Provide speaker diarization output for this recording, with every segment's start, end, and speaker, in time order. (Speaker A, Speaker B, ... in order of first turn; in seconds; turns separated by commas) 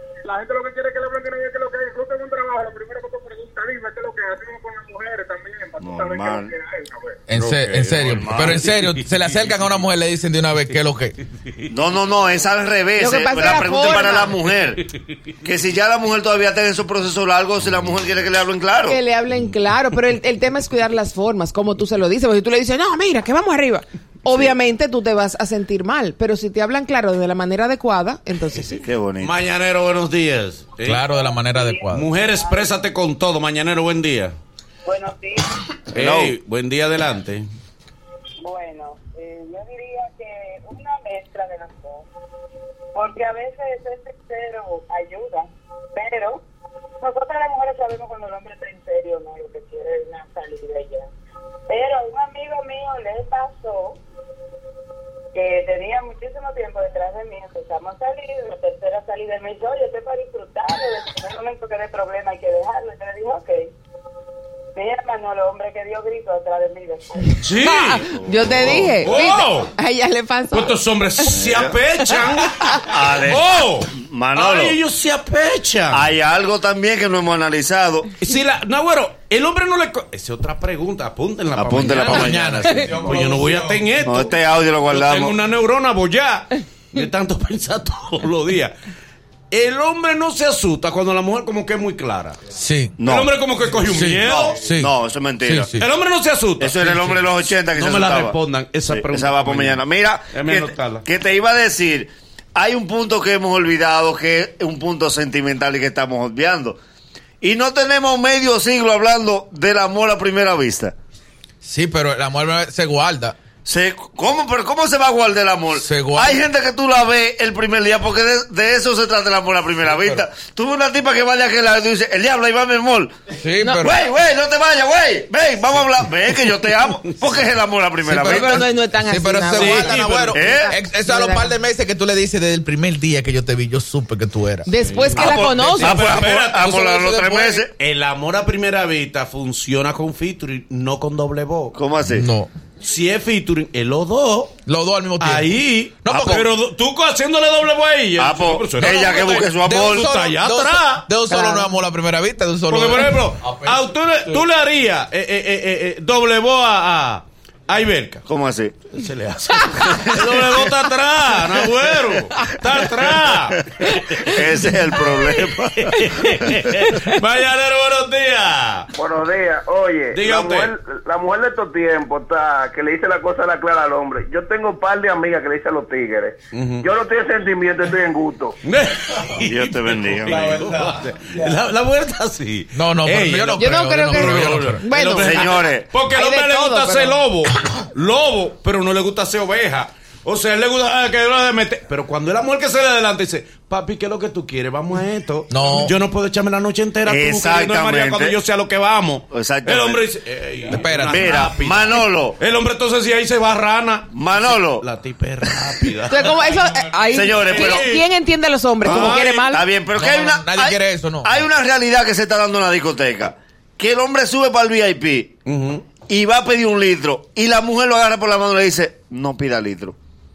Speaker A: 0.2-7.2, Speaker B: 5.8-6.5, Speaker C: 7.3-11.2, Speaker D: 7.4-9.8, Speaker B: 7.8-8.7, Speaker D: 11.3-11.7, Speaker B: 11.7-14.8, Speaker E: 13.0-14.4, Speaker B: 15.4-19.0, Speaker E: 18.9-28.8, Speaker B: 28.7-29.4, Speaker D: 29.2-31.2, Speaker C: 30.8-32.1, Speaker F: 31.5-32.7, Speaker D: 31.9-34.3, Speaker F: 34.9-35.5, Speaker B: 35.9-36.4, Speaker D: 35.9-37.5, Speaker F: 38.4-42.1, Speaker F: 42.9-46.4, Speaker F: 47.0-51.1, Speaker F: 51.7-54.0, Speaker F: 55.3-63.7, Speaker F: 64.8-67.4, Speaker D: 67.4-69.7, Speaker E: 67.6-71.4, Speaker B: 68.5-68.9, Speaker D: 70.5-76.0, Speaker B: 71.3-71.8, Speaker B: 72.8-74.8, Speaker B: 75.9-78.1, Speaker D: 78.2-88.7, Speaker B: 81.5-82.7, Speaker C: 81.9-83.9, Speaker B: 84.0-85.4, Speaker D: 89.5-92.4, Speaker C: 92.5-93.0, Speaker B: 93.0-93.3, Speaker D: 93.0-94.6, Speaker C: 93.8-95.9, Speaker B: 94.3-95.7, Speaker D: 95.8-101.0, Speaker B: 96.6-98.4, Speaker B: 98.9-106.8, Speaker B: 107.4-111.0, Speaker C: 111.6-113.4, Speaker B: 113.7-123.2, Speaker C: 115.8-116.4, Speaker C: 119.9-120.2, Speaker C: 123.4-124.0, Speaker E: 123.6-123.9, Speaker B: 123.8-128.7, Speaker C: 128.1-134.7, Speaker E: 128.2-131.5, Speaker D: 129.5-130.4, Speaker B: 130.3-130.7, Speaker E: 134.7-136.0, Speaker D: 134.8-136.8, Speaker B: 135.2-137.7, Speaker C: 136.6-137.6, Speaker D: 137.8-141.8, Speaker B: 141.7-142.3, Speaker C: 142.1-142.5, Speaker D: 142.8-144.6, Speaker C: 144.7-146.5, Speaker D: 145.2-151.1, Speaker B: 148.2-150.2, Speaker C: 148.8-154.4, Speaker E: 151.3-151.7, Speaker D: 152.7-158.2, Speaker B: 158.3-158.8, Speaker D: 158.9-164.4, Speaker B: 163.1-166.6, Speaker D: 165.3-168.9, Speaker G: 169.0-178.6, Speaker D: 170.1-170.7, Speaker D: 176.5-176.9, Speaker D: 178.6-206.5, Speaker B: 179.4-180.5, Speaker C: 180.3-181.6, Speaker C: 182.8-184.8, Speaker E: 183.6-185.6, Speaker B: 185.2-185.9, Speaker E: 186.1-187.2, Speaker C: 195.5-195.9, Speaker B: 197.1-198.4, Speaker B: 199.3-200.1, Speaker C: 200.7-201.5, Speaker B: 201.1-202.4, Speaker B: 204.1-204.8, Speaker E: 206.1-209.7, Speaker B: 207.1-208.0, Speaker D: 207.1-208.1, Speaker D: 208.8-209.5, Speaker B: 208.8-215.3, Speaker C: 209.9-211.4, Speaker D: 215.5-215.8, Speaker B: 216.1-220.0